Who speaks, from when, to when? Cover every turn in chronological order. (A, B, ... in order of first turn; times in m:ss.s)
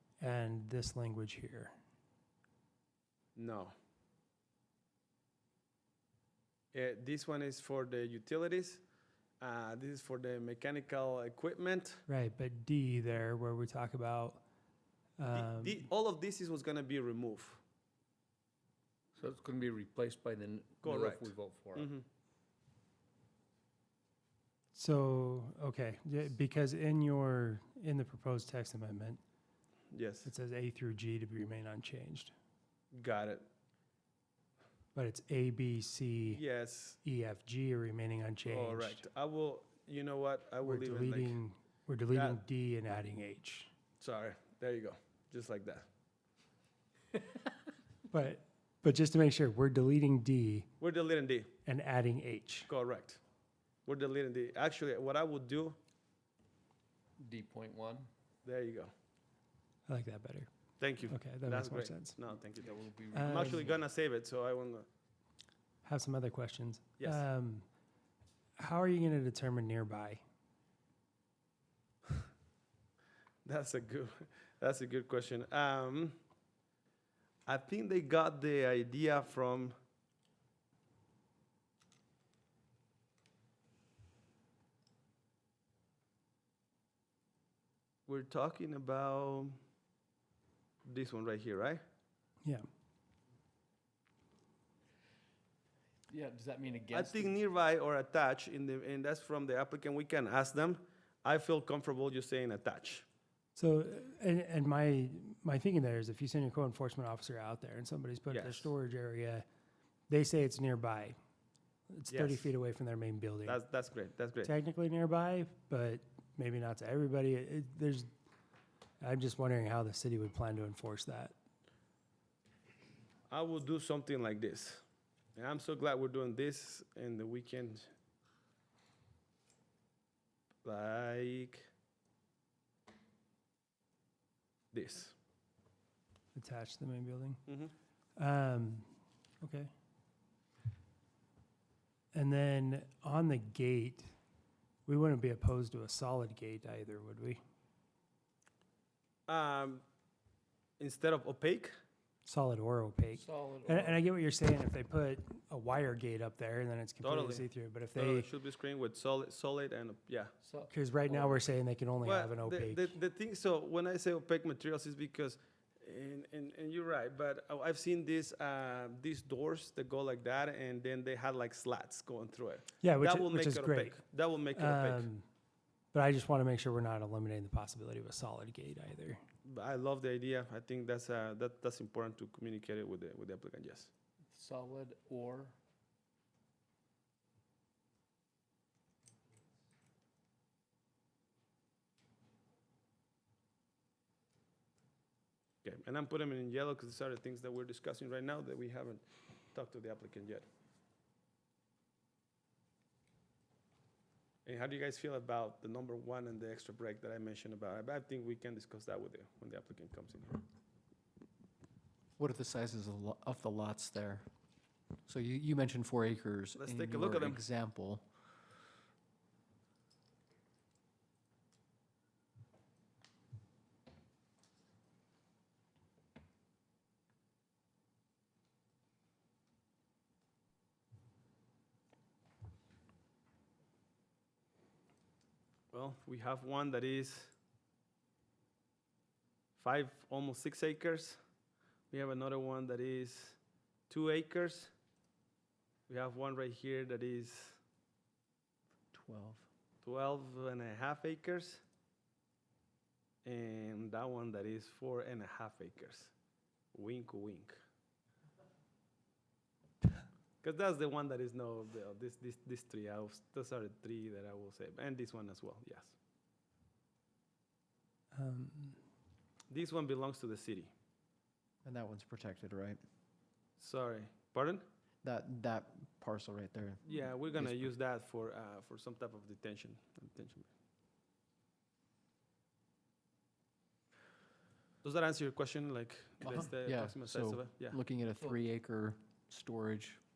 0:00.2-0:01.7 A
0:03.3-0:03.7 B
0:06.7-0:08.8 B
0:09.4-0:12.0 B
0:12.1-0:14.4 A
0:15.2-0:15.9 A
0:15.3-0:17.6 B
0:19.2-0:21.9 C
0:20.8-0:22.0 B
0:24.7-0:29.2 A
0:29.9-0:30.3 B
0:30.2-0:32.3 A
0:32.9-0:33.4 B
0:34.9-0:36.4 A
0:36.3-0:37.0 B
0:37.0-0:39.0 A
0:38.4-0:41.4 B
0:40.6-0:43.7 A
0:42.1-0:42.4 B
0:44.0-0:45.9 B
0:48.1-0:50.7 A
0:50.8-0:51.5 B
0:51.6-0:52.7 A
0:52.7-0:53.2 B
0:53.8-0:55.8 B
0:57.2-0:58.1 C
0:58.4-0:58.9 B
0:59.9-1:00.5 A
1:00.8-1:04.9 B
1:01.1-1:02.2 A
1:02.5-1:03.8 C
1:03.1-1:03.6 A
1:05.8-1:07.6 A
1:07.0-1:07.2 B
1:08.6-1:10.2 A
1:13.4-1:16.2 B
1:17.4-1:19.8 B
1:28.1-1:29.6 B
1:30.8-1:31.8 B
1:36.1-1:37.3 C
1:36.9-1:43.0 B
1:43.6-1:49.4 A
1:48.3-1:48.7 B
1:50.1-1:51.2 A
1:51.9-1:53.6 A
1:52.1-1:52.5 B
1:53.4-1:54.5 B
1:54.4-1:58.1 A
1:59.0-2:01.3 A
2:03.3-2:04.8 B
2:05.3-2:07.9 B
2:10.6-2:11.7 B
2:14.7-2:15.1 B
2:16.3-2:17.4 A
2:17.5-2:17.7 B
2:18.2-2:18.9 A
2:19.4-2:19.7 A
2:22.1-2:24.1 A
2:24.8-2:27.4 A
2:29.3-2:29.8 B
2:30.8-2:31.8 B
2:32.2-2:38.3 A
2:33.1-2:34.0 C
2:37.0-2:40.3 B
2:40.4-2:41.4 C
2:40.7-2:42.9 A
2:42.0-2:55.1 B
2:52.8-2:54.0 A
2:54.5-2:55.2 A
2:55.9-2:59.2 A
2:59.4-3:03.9 B
3:04.3-3:05.6 C
3:15.6-3:20.4 B
3:24.4-3:30.4 B
3:32.2-3:34.2 D
3:35.0-3:38.1 D
3:36.5-3:37.4 B
3:55.7-3:57.3 B
3:59.6-4:01.2 B
4:01.9-4:03.4 B
4:03.9-4:04.7 B
4:05.9-4:07.6 B
4:08.9-4:09.5 D
4:09.8-4:11.6 B
4:13.2-4:16.1 B
4:16.7-4:17.6 B
4:20.4-4:25.9 B
4:28.1-4:28.8 A
4:29.5-4:30.7 B
4:31.6-4:32.8 D
4:33.6-4:34.6 B
4:35.0-4:37.7 D
4:36.8-4:40.5 B
4:44.8-4:47.8 B
4:46.2-4:50.0 D